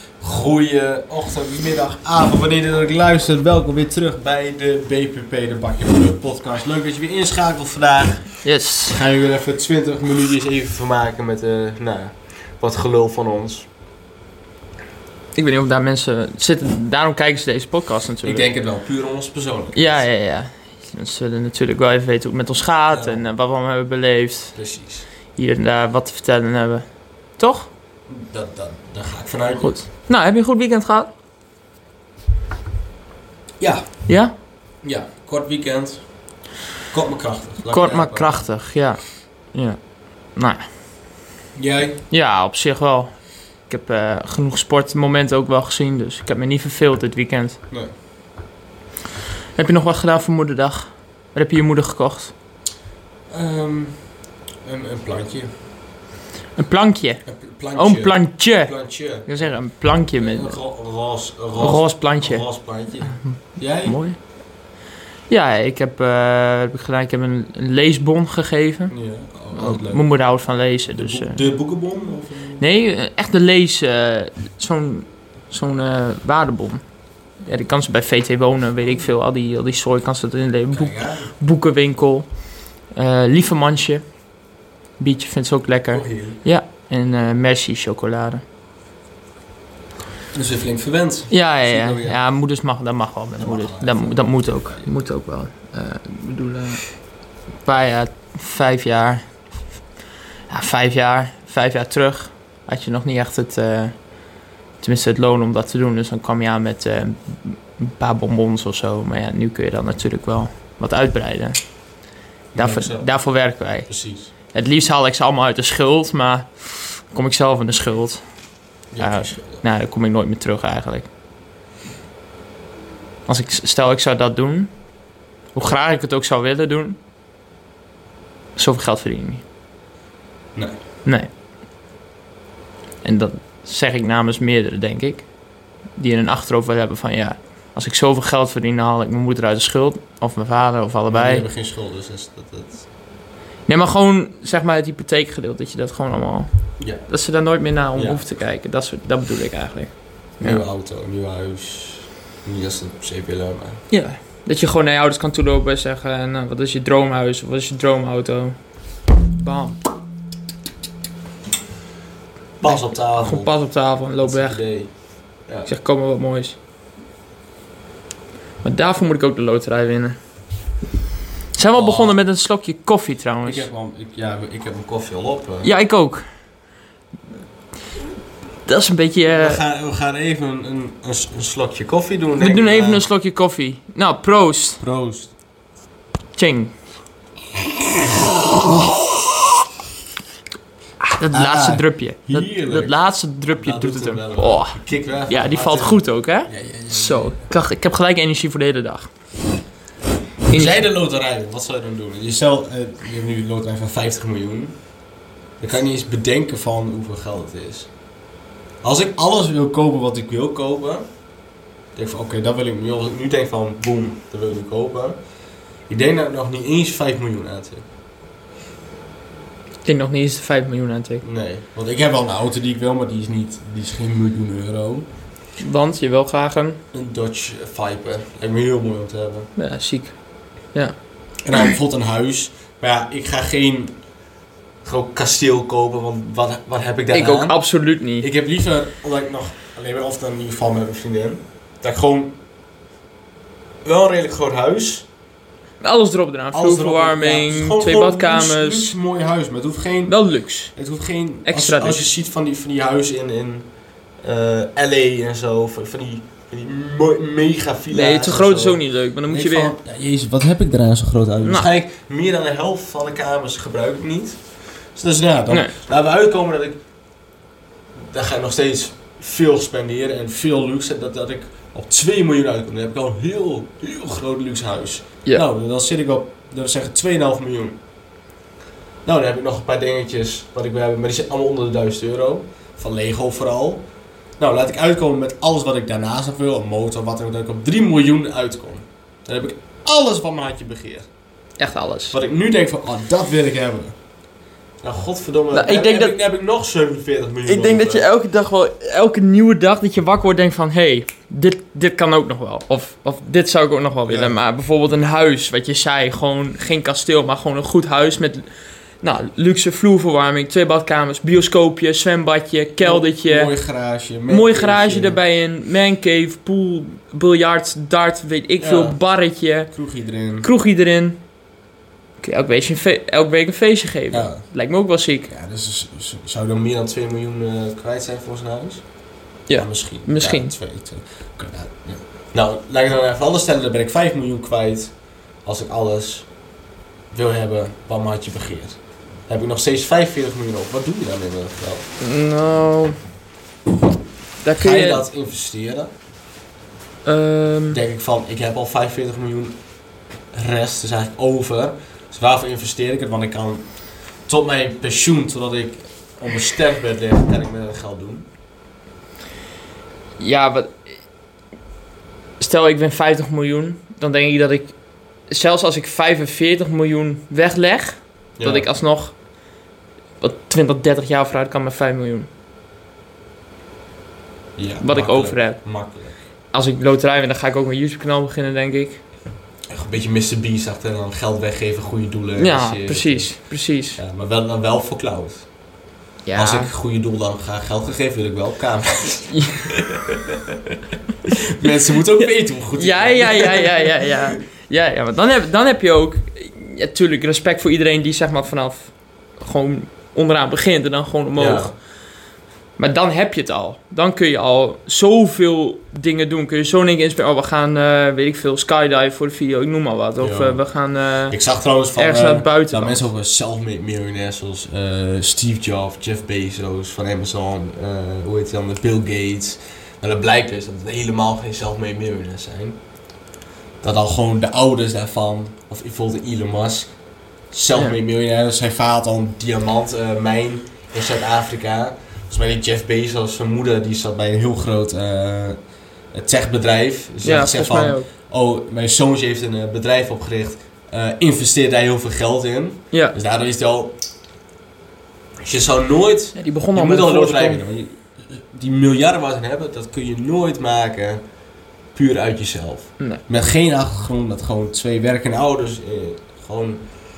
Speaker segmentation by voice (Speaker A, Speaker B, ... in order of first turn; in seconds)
Speaker A: 0.2-13.7, 18.2-20.0, 22.9-23.2, 24.5-25.1, 28.1-29.8, 33.6-34.1, 34.8-36.1, 36.9-38.5, 41.5-42.0, 53.3-54.0, 54.6-55.5, 57.2-59.5, 60.1-64.0, 68.9-70.0, 70.9-72.6, 80.7-81.3, 85.9-86.4, 90.3-92.2, 93.4-94.9, 112.5-113.1, 113.8-114.3, 118.9-119.6, 141.1-142.8, 146.8-147.0, 147.9-148.2, 150.4-153.8, 162.6-163.5, 164.2-164.9, 171.7-172.1, 173.4-175.7, 179.3-183.0, 184.8-185.3, 191.3-193.0, 193.6-197.5, 200.5-204.8, 205.6-207.9, 208.8-211.1, 211.9-215.2, 215.9-217.8, 221.2-225.1, 226.9-229.5, 231.4-234.0, 234.8-237.6, 238.2-242.4, 243.8-245.1, 246.5-253.7, 254.2-264.4, 264.9-266.8, 268.1-277.8, 279.0-283.8, 284.4-291.1, 292.1-293.9, 294.8-298.1, 304.1-304.4, 312.8-315.2, 318.6-319.0, 319.7-320.5, 324.1-324.4, 325.3-328.8, 329.5-334.9, 335.4-336.3, 337.1-341.9, 344.6-345.9, 347.7-349.6, 350.3-358.3, 368.4-368.7, 374.6-376.1, 379.7-383.3, 383.9-385.5, 386.3-390.4, 391.3-394.2, 401.4-401.7, 410.2-410.6, 411.3-422.8, 423.8-426.9, 427.5-435.6, 436.1-443.9, 445.4-451.2, 451.9-456.9
Speaker B: 8.4-9.0, 15.3-18.5, 19.7-24.6, 25.4-27.7, 29.6-31.1, 34.1-34.3, 37.7-39.0, 39.5-39.8, 40.3-40.6, 42.1-47.6, 49.5-52.3, 56.5-60.6, 61.6-62.5, 63.1-64.2, 65.3-68.9, 69.5-71.4, 72.6-76.8, 77.4-82.3, 82.8-84.1, 85.0-88.4, 91.3-96.9, 97.6-99.2, 100.5-104.0, 104.8-111.6, 112.5-113.9, 114.4-116.5, 117.1-118.2, 119.0-121.1, 123.2-124.7, 125.5-127.0, 128.6-129.4, 133.0-135.3, 135.9-141.4, 143.7-150.6, 153.9-158.6, 159.3-159.8, 162.6-164.6, 165.7-166.6, 168.6-170.2, 171.5-173.7, 175.6-176.2, 178.7-179.6, 182.4-184.8, 186.3-186.7, 191.0-199.1, 200.5-200.8, 219.8-221.2, 225.6-226.8, 229.6-230.2, 237.1-238.3, 245.8-248.9, 250.1-250.7, 251.4-252.1, 257.9-259.7, 261.4-261.7, 291.6-292.1, 295.5-296.2, 297.4-308.4, 309.0-313.5, 314.3-319.7, 320.4-321.2, 322.2-325.3, 329.5-330.5, 342.0-342.9, 344.4-345.0, 347.0-347.8, 360.2-360.8, 362.4-364.7, 365.3-369.1, 370.2-372.3, 374.8-375.6, 376.5-379.0, 382.4-384.0, 386.2-386.7, 389.3-389.6, 392.7-401.7, 402.8-411.4, 411.9-413.0, 437.2-438.1, 446.4-447.6